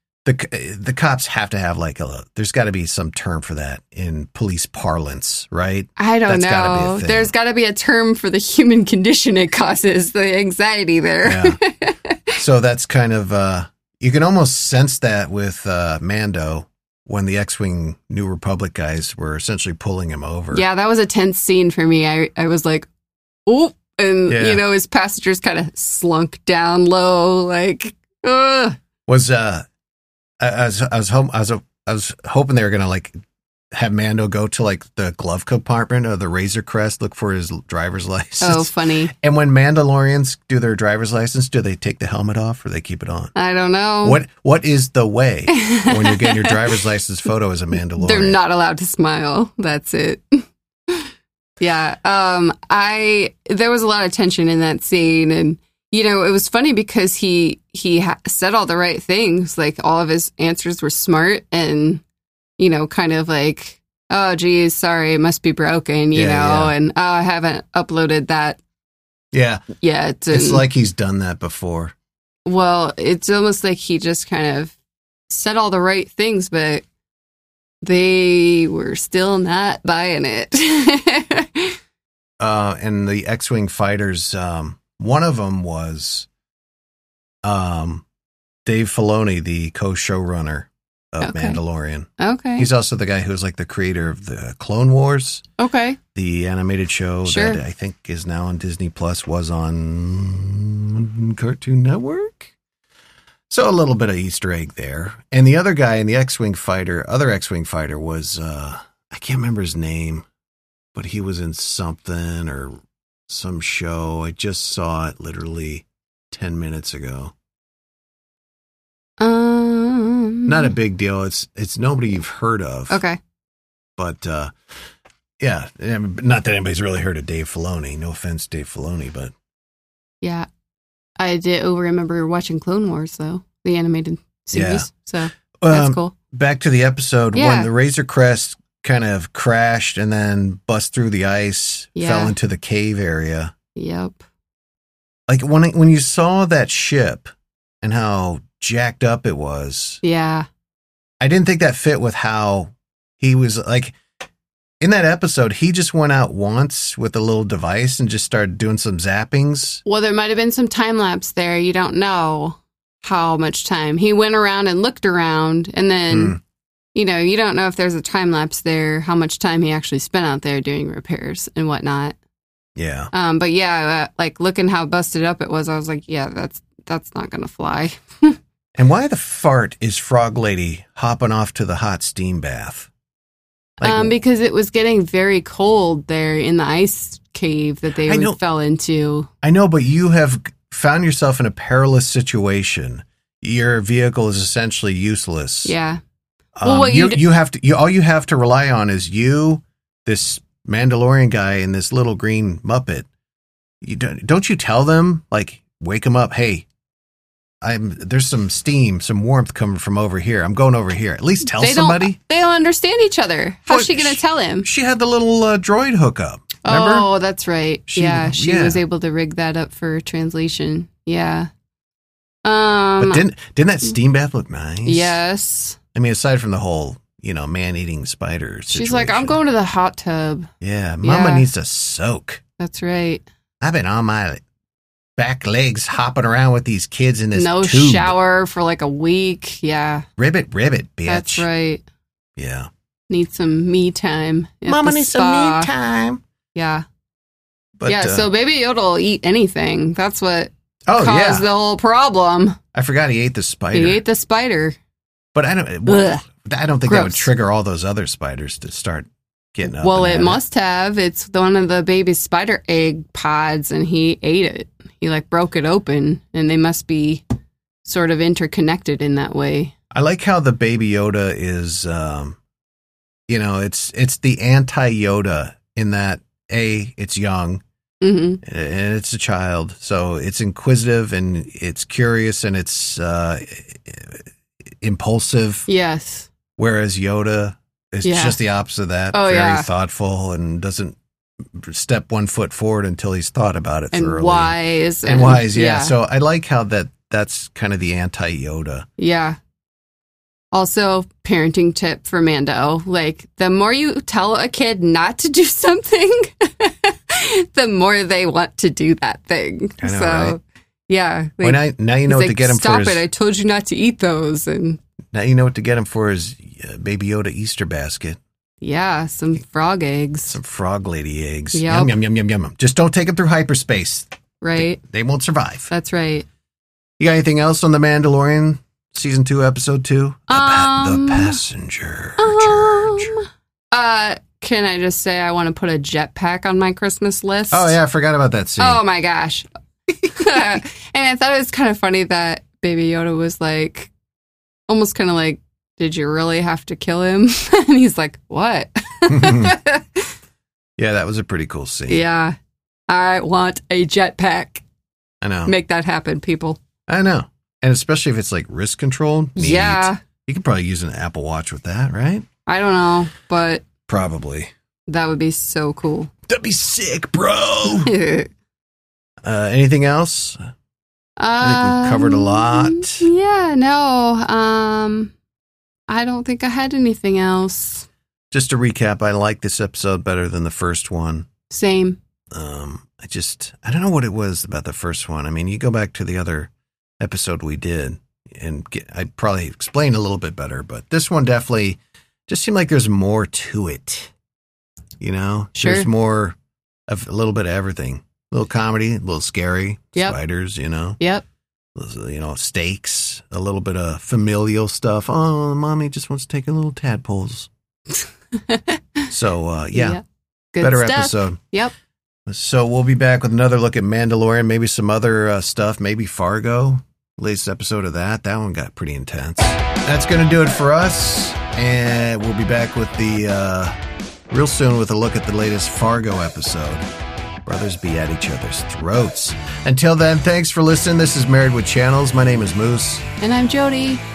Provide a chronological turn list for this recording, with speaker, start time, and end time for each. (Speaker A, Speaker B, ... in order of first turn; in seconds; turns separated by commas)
Speaker A: 0.2-7.3, Speaker B: 6.0-12.4, Speaker A: 11.2-11.6, Speaker A: 12.4-20.6, Speaker B: 20.5-22.9, Speaker B: 23.5-28.8, Speaker A: 24.3-24.6, Speaker A: 29.1-29.6, Speaker A: 30.4-33.1, Speaker A: 33.7-43.3, Speaker B: 38.4-39.1, Speaker B: 43.4-44.2, Speaker A: 44.0-48.4, Speaker B: 45.5-46.8, Speaker B: 48.0-62.0, Speaker B: 62.6-68.6, Speaker A: 66.1-66.7, Speaker A: 69.3-69.7, Speaker B: 69.8-70.7, Speaker A: 70.3-71.9, Speaker B: 72.5-74.7, Speaker B: 75.3-76.8, Speaker B: 77.8-81.8, Speaker A: 82.4-86.3, Speaker A: 87.4-88.0, Speaker A: 88.7-95.4, Speaker B: 91.2-91.6, Speaker B: 92.2-92.7, Speaker B: 95.6-96.0, Speaker A: 96.2-102.5, Speaker B: 97.2-97.6, Speaker A: 103.5-110.3, Speaker A: 111.0-117.3, Speaker B: 119.2-120.7, Speaker A: 120.5-123.0, Speaker B: 122.9-123.2, Speaker A: 124.0-124.5, Speaker A: 125.4-129.3, Speaker B: 130.2-130.5, Speaker B: 131.2-136.1, Speaker A: 134.5-134.9, Speaker A: 135.6-143.5, Speaker B: 137.3-137.7, Speaker B: 142.0-142.3, Speaker B: 143.8-144.2, Speaker A: 145.3-147.3, Speaker A: 147.8-150.0, Speaker B: 150.0-150.5, Speaker A: 151.2-154.0, Speaker A: 154.8-159.8, Speaker B: 159.8-166.4, Speaker A: 166.1-166.4, Speaker B: 166.9-172.2, Speaker A: 172.8-173.1, Speaker B: 173.1-178.4, Speaker A: 178.8-182.9, Speaker B: 183.8-189.3, Speaker A: 183.8-184.2, Speaker A: 188.0-188.4, Speaker A: 189.4-195.7, Speaker B: 195.7-196.0, Speaker A: 196.6-203.1, Speaker B: 196.6-197.2, Speaker A: 203.8-206.7, Speaker A: 207.6-212.2, Speaker B: 211.4-214.7, Speaker A: 213.7-217.1, Speaker B: 216.6-221.5, Speaker A: 217.9-218.8, Speaker B: 222.4-223.2, Speaker A: 223.0-225.2, Speaker B: 224.8-225.8, Speaker A: 225.9-229.4, Speaker B: 228.7-230.5, Speaker A: 230.6-232.4, Speaker B: 231.0-231.5, Speaker B: 232.6-233.2, Speaker A: 233.6-234.4, Speaker A: 235.2-238.1, Speaker B: 237.3-240.1, Speaker A: 240.2-241.5, Speaker B: 241.1-241.8, Speaker A: 242.4-242.7, Speaker B: 243.1-245.7, Speaker A: 244.7-246.2, Speaker B: 246.6-246.8, Speaker A: 247.8-248.3, Speaker B: 247.9-252.6, Speaker A: 250.9-251.5, Speaker A: 252.7-254.0, Speaker B: 253.7-254.8, Speaker A: 255.3-260.4, Speaker B: 255.9-256.2, Speaker B: 256.9-257.3, Speaker B: 259.7-267.2, Speaker B: 267.8-269.7, Speaker A: 269.9-272.4, Speaker A: 273.3-277.6, Speaker B: 278.0-278.4, Speaker A: 278.4-284.3, Speaker A: 284.8-285.7, Speaker B: 285.7-286.3, Speaker A: 286.6-291.0, Speaker B: 288.0-288.4, Speaker B: 289.1-289.7, Speaker A: 291.5-298.9, Speaker B: 293.9-295.9, Speaker B: 299.0-299.4, Speaker B: 300.5-314.8, Speaker A: 309.8-310.4, Speaker A: 311.4-313.0, Speaker A: 315.1-318.2, Speaker B: 318.6-320.4, Speaker A: 320.3-325.7, Speaker B: 321.5-321.9, Speaker B: 324.4-324.8, Speaker B: 325.7-326.3, Speaker A: 327.0-333.1, Speaker B: 330.3-331.4, Speaker B: 332.2-337.8, Speaker A: 337.5-338.8, Speaker B: 338.6-339.5, Speaker B: 340.0-343.9, Speaker B: 344.7-350.1, Speaker A: 349.1-349.6, Speaker A: 350.8-352.0, Speaker B: 351.9-352.4, Speaker B: 352.9-354.6, Speaker A: 355.2-355.5, Speaker B: 355.5-356.6, Speaker A: 356.9-362.3, Speaker B: 359.4-360.0, Speaker B: 362.5-363.7, Speaker A: 363.9-364.5, Speaker B: 364.9-366.1, Speaker A: 366.3-367.9, Speaker B: 367.8-368.3, Speaker A: 369.2-370.4, Speaker B: 371.2-375.1, Speaker A: 371.4-373.1, Speaker B: 375.9-377.9, Speaker A: 378.3-381.3, Speaker B: 381.5-382.0, Speaker A: 382.3-394.1, Speaker A: 395.0-396.4, Speaker B: 395.6-395.9, Speaker A: 396.9-401.0, Speaker B: 401.0-401.2, Speaker A: 401.8-407.5, Speaker B: 408.4-409.1, Speaker A: 409.1-410.0, Speaker B: 409.7-410.0, Speaker B: 410.5-411.7, Speaker A: 410.6-411.4, Speaker A: 412.3-423.8, Speaker A: 424.3-426.9, Speaker A: 427.5-433.1, Speaker B: 433.2-434.0